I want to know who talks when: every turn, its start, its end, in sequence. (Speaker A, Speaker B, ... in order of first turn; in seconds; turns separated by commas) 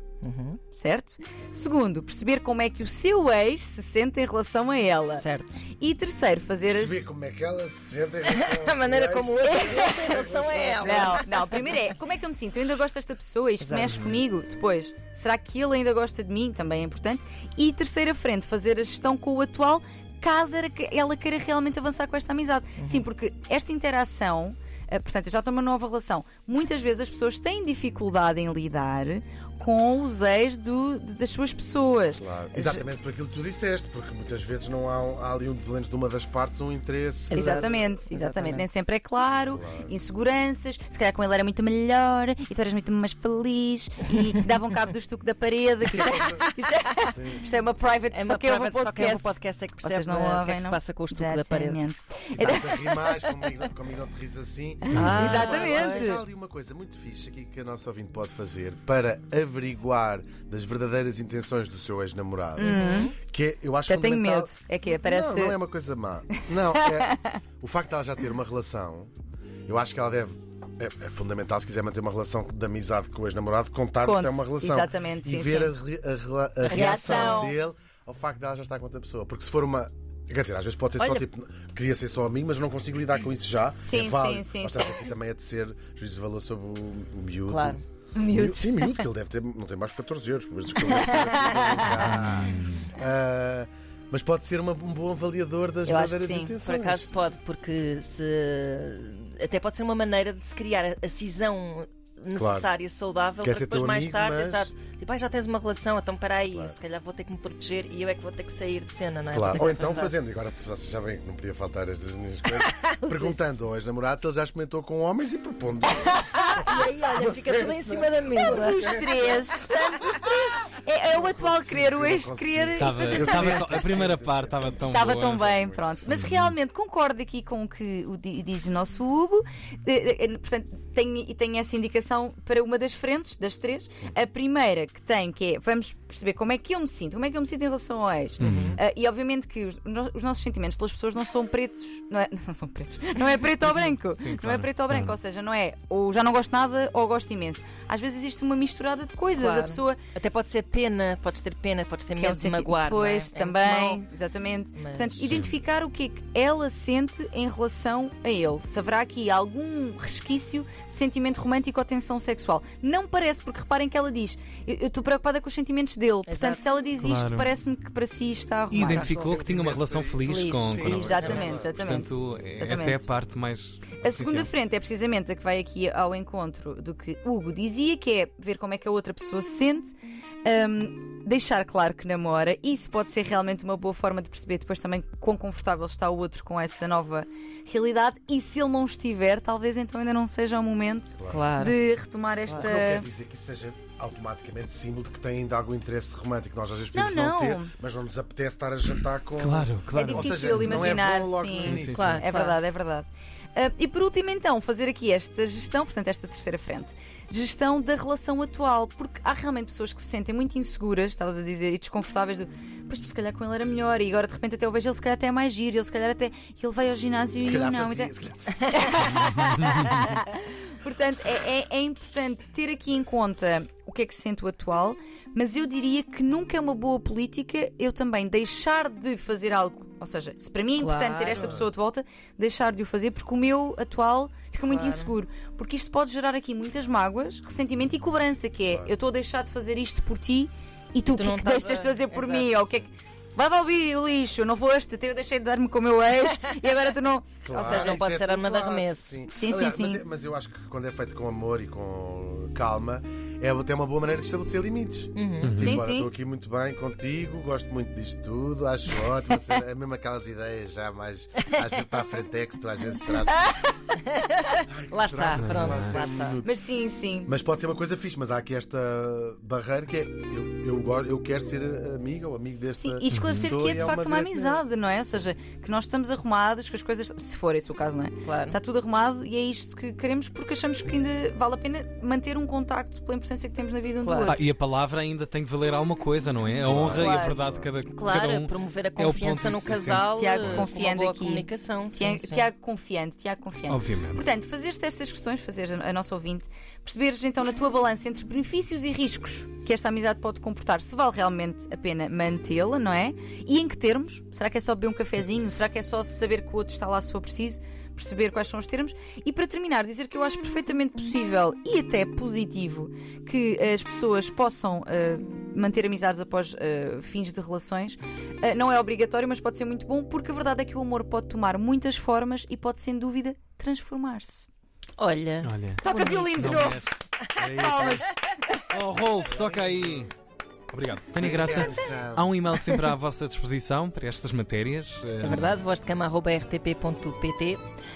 Speaker A: 0.2-0.6, Speaker B: 0.7-7.0, Speaker A: 5.1-5.6, Speaker C: 6.7-11.3, Speaker A: 8.2-11.9, Speaker B: 9.4-10.2, Speaker B: 10.8-32.8, Speaker A: 13.6-14.0, Speaker A: 22.8-23.0, Speaker C: 32.1-37.8, Speaker A: 37.3-38.6, Speaker B: 37.3-53.4, Speaker C: 39.5-39.9, Speaker C: 45.9-47.5, Speaker A: 48.1-51.8, Speaker C: 52.3-69.1, Speaker A: 54.9-56.2, Speaker B: 55.0-56.2, Speaker B: 62.6-63.1, Speaker A: 62.6-63.1, Speaker B: 63.9-65.6, Speaker B: 66.3-67.4, Speaker C: 69.7-97.1, Speaker B: 74.0-75.7, Speaker B: 76.7-77.5, Speaker A: 76.7-77.5, Speaker A: 81.0-81.3, Speaker B: 83.8-85.0, Speaker A: 87.5-87.8, Speaker B: 88.1-89.0, Speaker A: 90.9-92.2, Speaker B: 91.5-92.1, Speaker D: 92.1-92.8, Speaker B: 95.8-96.5, Speaker A: 96.6-110.2, Speaker C: 102.3-102.7, Speaker C: 103.4-104.7, Speaker C: 106.5-106.8, Speaker C: 109.3-120.2, Speaker A: 112.6-113.6, Speaker B: 116.1-116.6, Speaker A: 116.6-118.9, Speaker B: 118.3-123.8, Speaker C: 121.1-126.0, Speaker D: 122.8-125.4, Speaker B: 124.8-150.0, Speaker D: 126.2-126.5, Speaker A: 138.4-138.8, Speaker D: 138.4-138.8, Speaker D: 143.7-145.2, Speaker A: 149.3-154.1, Speaker B: 152.2-169.3, Speaker A: 154.7-155.2, Speaker D: 155.2-155.5, Speaker A: 166.2-166.8, Speaker D: 167.0-167.5, Speaker D: 168.7-174.5, Speaker A: 168.8-169.4, Speaker C: 169.1-172.1, Speaker A: 170.2-171.6, Speaker B: 170.8-173.1, Speaker B: 174.0-193.1, Speaker C: 191.2-191.6, Speaker A: 191.3-191.8, Speaker C: 192.5-202.0, Speaker B: 196.9-197.7, Speaker D: 199.4-200.9, Speaker B: 199.9-248.1, Speaker D: 201.5-202.2, Speaker A: 201.9-202.6, Speaker C: 217.4-219.2, Speaker A: 230.8-231.6, Speaker A: 234.6-235.1, Speaker C: 238.7-238.9, Speaker A: 241.1-242.8, Speaker C: 247.4-263.4, Speaker A: 247.6-249.2, Speaker B: 249.3-250.0, Speaker A: 255.1-255.6, Speaker D: 255.4-255.8, Speaker B: 255.6-256.1, Speaker B: 263.3-263.7, Speaker A: 264.1-266.4, Speaker C: 264.7-266.5, Speaker D: 265.4-266.0, Speaker B: 266.4-267.3, Speaker C: 267.2-274.6, Speaker B: 272.8-284.4, Speaker D: 273.1-273.5, Speaker A: 278.2-278.6, Speaker A: 284.0-284.4, Speaker D: 284.3-290.7, Speaker C: 286.6-287.7, Speaker B: 286.8-287.4, Speaker A: 287.9-292.5, Speaker B: 290.1-324.5, Speaker D: 293.7-294.2, Speaker A: 325.0-326.7, Speaker D: 325.4-328.1, Speaker B: 325.8-326.9, Speaker B: 327.5-328.3, Speaker D: 328.7-330.1, Speaker C: 329.2-330.1, Speaker D: 330.7-335.6, Speaker C: 331.2-332.3, Speaker A: 335.2-337.6